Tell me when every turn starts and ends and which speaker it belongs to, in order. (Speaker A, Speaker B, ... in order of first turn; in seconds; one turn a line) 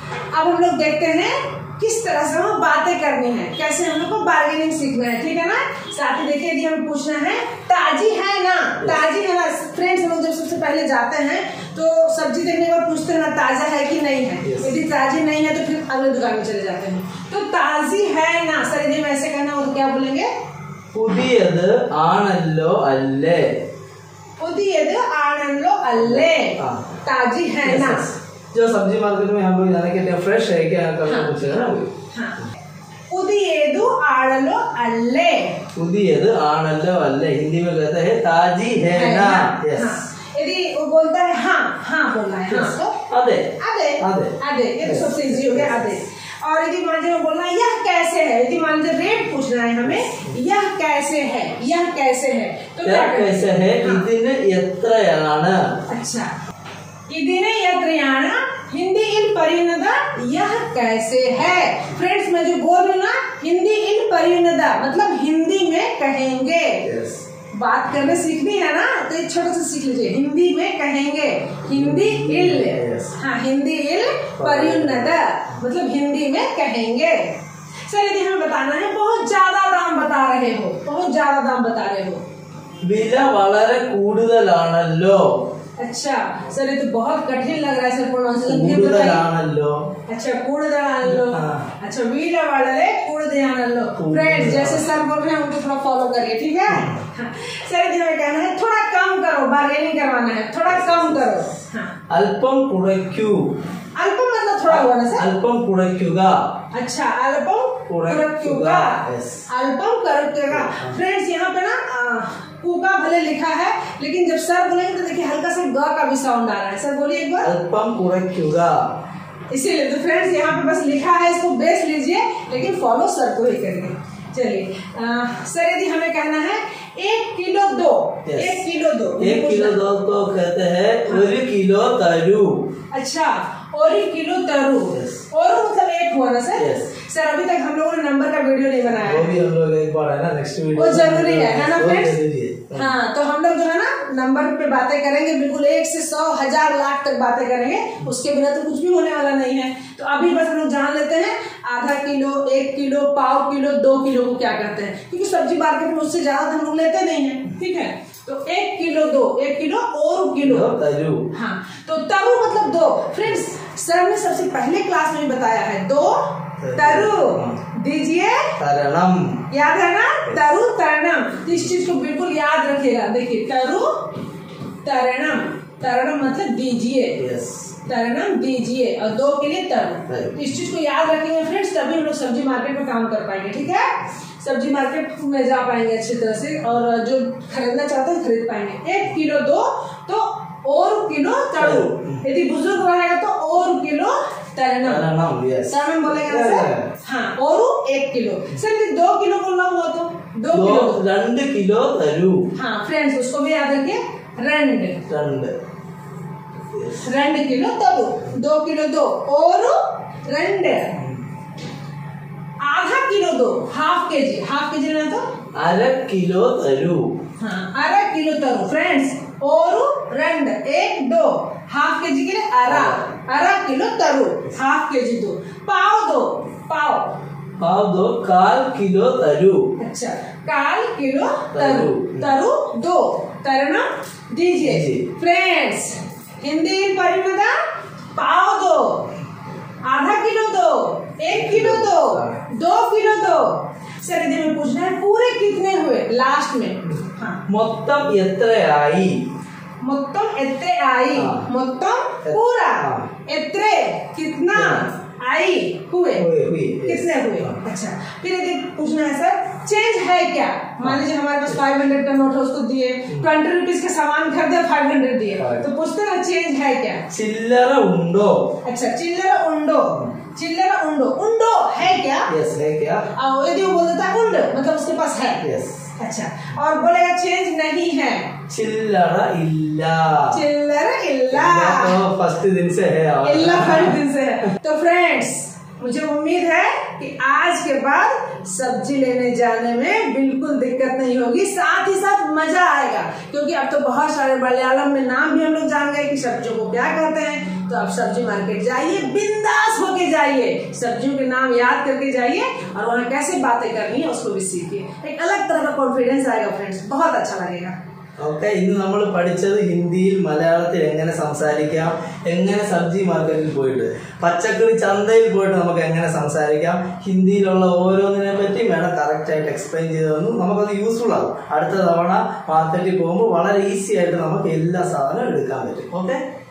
Speaker A: 0.3-20.3
Speaker B: 14.4-14.8
Speaker B: 20.9-23.6
Speaker A: 24.4-28.1
Speaker B: 26.0-27.0
Speaker B: 27.6-31.9
Speaker A: 31.1-32.5
Speaker A: 33.1-35.6
Speaker B: 35.8-40.0
Speaker A: 38.9-43.0
Speaker B: 42.5-46.0
Speaker A: 43.6-54.1
Speaker B: 50.1-50.3
Speaker B: 52.8-55.8
Speaker A: 55.9-56.3
Speaker A: 57.1-66.8
Speaker B: 66.8-67.2
Speaker A: 67.5-77.4
Speaker B: 71.7-73.2
Speaker B: 74.4-75.1
Speaker A: 77.9-82.2
Speaker B: 82.8-85.5
Speaker A: 85.8-89.3
Speaker B: 88.4-89.9
Speaker A: 90.1-101.9
Speaker B: 91.0-91.7
Speaker B: 94.0-94.9
Speaker B: 96.7-97.0
Speaker B: 100.7-101.5
Speaker B: 102.1-103.6
Speaker A: 104.0-105.3
Speaker B: 104.7-106.5
Speaker A: 106.7-117.5
Speaker B: 107.9-109.5
Speaker B: 110.5-111.0
Speaker B: 117.4-118.9
Speaker A: 119.5-129.8
Speaker B: 128.3-128.6
Speaker B: 129.2-132.8
Speaker A: 131.1-131.3
Speaker A: 132.9-139.3
Speaker B: 134.9-135.2
Speaker B: 136.6-136.9
Speaker B: 139.0-142.9
Speaker A: 140.8-142.2
Speaker A: 142.7-160.7
Speaker B: 160.4-161.3
Speaker A: 161.3-168.6
Speaker B: 166.6-167.6
Speaker B: 168.6-169.5
Speaker A: 169.5-174.1
Speaker A: 174.8-177.2
Speaker B: 177.2-177.7
Speaker A: 177.8-195.1
Speaker B: 180.1-180.5
Speaker B: 191.6-192.2
Speaker B: 194.8-196.9
Speaker A: 195.7-201.0
Speaker B: 200.5-202.5
Speaker A: 202.6-205.0
Speaker B: 205.1-205.6
Speaker B: 206.7-207.1
Speaker A: 207.0-211.0
Speaker A: 212.6-215.2
Speaker B: 215.6-217.2
Speaker A: 217.4-227.2
Speaker B: 222.7-223.0
Speaker B: 227.6-229.6
Speaker A: 229.8-237.6
Speaker B: 231.5-232.3
Speaker B: 234.6-235.1
Speaker A: 238.2-239.1
Speaker A: 239.8-247.4
Speaker B: 241.3-242.4
Speaker B: 247.5-249.3
Speaker A: 249.8-256.3
Speaker B: 251.2-251.5
Speaker B: 252.2-253.1
Speaker B: 254.5-254.8
Speaker B: 256.2-257.6
Speaker A: 256.9-267.1
Speaker B: 265.4-265.7
Speaker B: 267.1-268.6
Speaker A: 268.6-272.3
Speaker B: 272.3-273.1
Speaker A: 273.2-275.5
Speaker B: 275.4-275.9
Speaker A: 276.0-278.4
Speaker B: 278.5-280.4
Speaker A: 280.3-282.0
Speaker B: 281.3-284.0
Speaker A: 283.2-307.8
Speaker B: 308.2-326.2